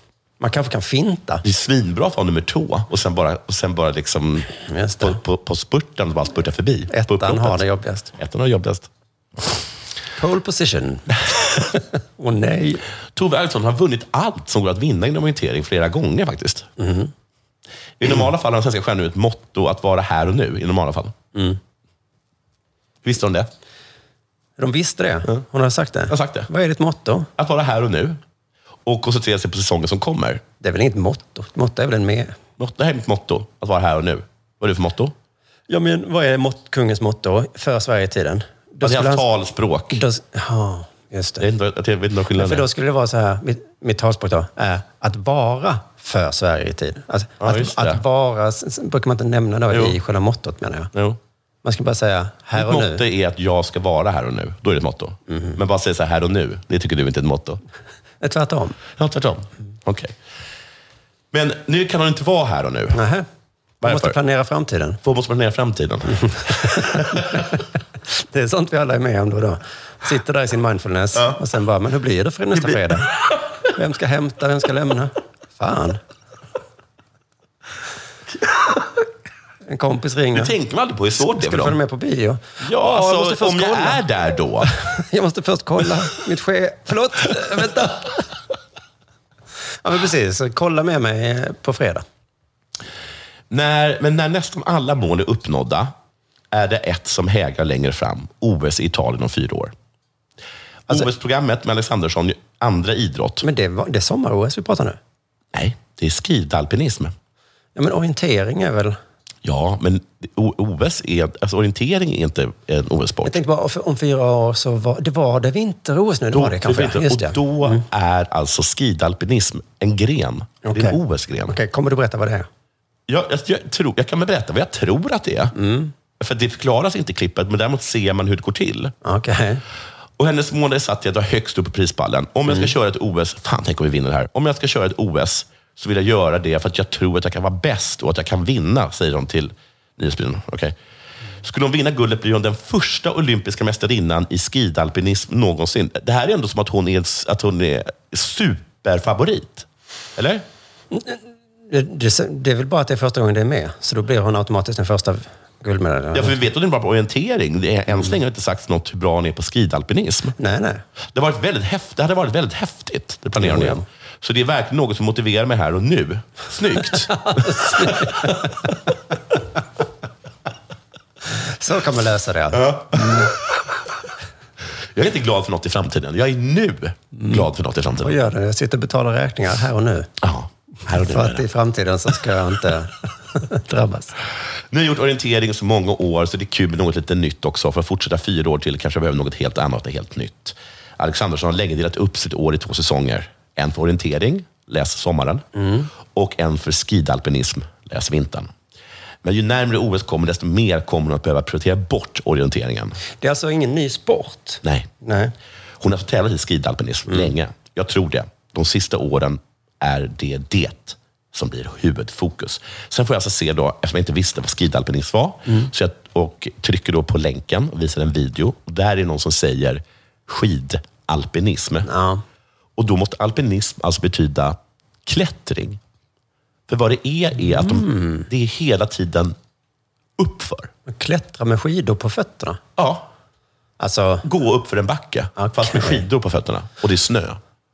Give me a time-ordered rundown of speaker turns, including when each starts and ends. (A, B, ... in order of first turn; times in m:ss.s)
0:00.4-0:01.4 A
0:01.4-0:07.6 B
0:04.7-0:05.2 A
0:06.9-0:08.1 A
0:08.2-0:08.9 B
0:10.2-0:11.6 A
0:12.2-0:12.8 A
0:13.1-0:16.7 B
0:16.8-0:17.1 A
0:18.0-0:21.1 B
0:21.3-0:21.6 A
0:23.0-0:23.5 B
0:24.6-0:27.3 A
0:26.1-0:26.5 B
0:27.4-0:28.2 B
0:28.8-0:30.4 B
0:30.6-0:32.4 A
0:32.6-0:35.1 B
0:35.7-0:39.2 A
0:38.8-0:40.0 B
0:39.9-0:41.5 A
0:41.4-0:42.7 B
0:42.4-0:50.9 A
0:47.4-0:48.0 B
0:49.7-0:50.0 B
0:50.9-0:51.2 B
0:51.6-0:53.0 A
0:52.5-0:57.6 B
0:55.3-0:55.6 A
0:58.2-0:58.8 A
0:59.0-1:00.2 B
1:01.3-1:03.0 B
1:02.9-1:03.2 A
1:03.8-1:04.2 B
1:03.8-1:05.0 A
1:05.0-1:07.4 B
1:06.3-1:07.6 A
1:08.1-1:13.1 A
1:12.5-1:13.0 B
1:13.7-1:16.0 A
1:19.7-1:20.5 A
1:20.3-1:21.8 B
1:21.2-1:24.0 A
1:22.6-1:24.7 B
1:24.7-1:28.2 A
1:29.8-1:32.0 A
1:33.5-1:35.9 B
1:36.5-1:39.7 B
1:40.9-1:43.4 B
1:43.4-1:45.0 A
1:45.5-1:47.1 B
1:47.8-1:49.0 A
1:49.4-1:53.4 B
1:53.2-1:57.8 A
1:56.3-2:01.6 B
2:00.6-2:02.5 A
2:03.1-2:05.5 B
2:05.5-2:05.9 A
2:06.2-2:08.9 B
2:09.0-2:09.6 A
2:10.2-2:20.7 B
2:21.4-2:30.4 B
2:30.9-2:36.4 A
2:36.1-2:40.4 B
2:40.4-2:40.8 A
2:41.1-2:48.6 B
2:43.4-2:43.8 A
2:47.1-2:48.6 A
2:51.3-2:53.3 A
2:52.5-2:53.3 B
2:54.9-2:58.2 B
2:57.1-2:57.4 A
2:58.0-3:00.1 A
3:00.2-3:01.4 B
3:00.8-3:04.1 A
3:04.7-3:15.4 B
3:15.5-3:15.9 A
3:16.0-3:18.5 B
3:19.2-3:23.0 B
3:23.2-3:25.3 A
3:24.6-3:24.9 B
3:25.8-3:41.9 B
3:41.8-3:42.2 A
3:42.8-3:45.8 B
3:46.7-3:49.4 B
3:47.4-3:48.3 A
3:50.2-3:50.7 B
3:50.8-3:52.6 A
3:52.8-3:53.1 B
3:53.8-3:54.2 A
3:54.2-3:57.4 B
3:55.4-3:56.0 A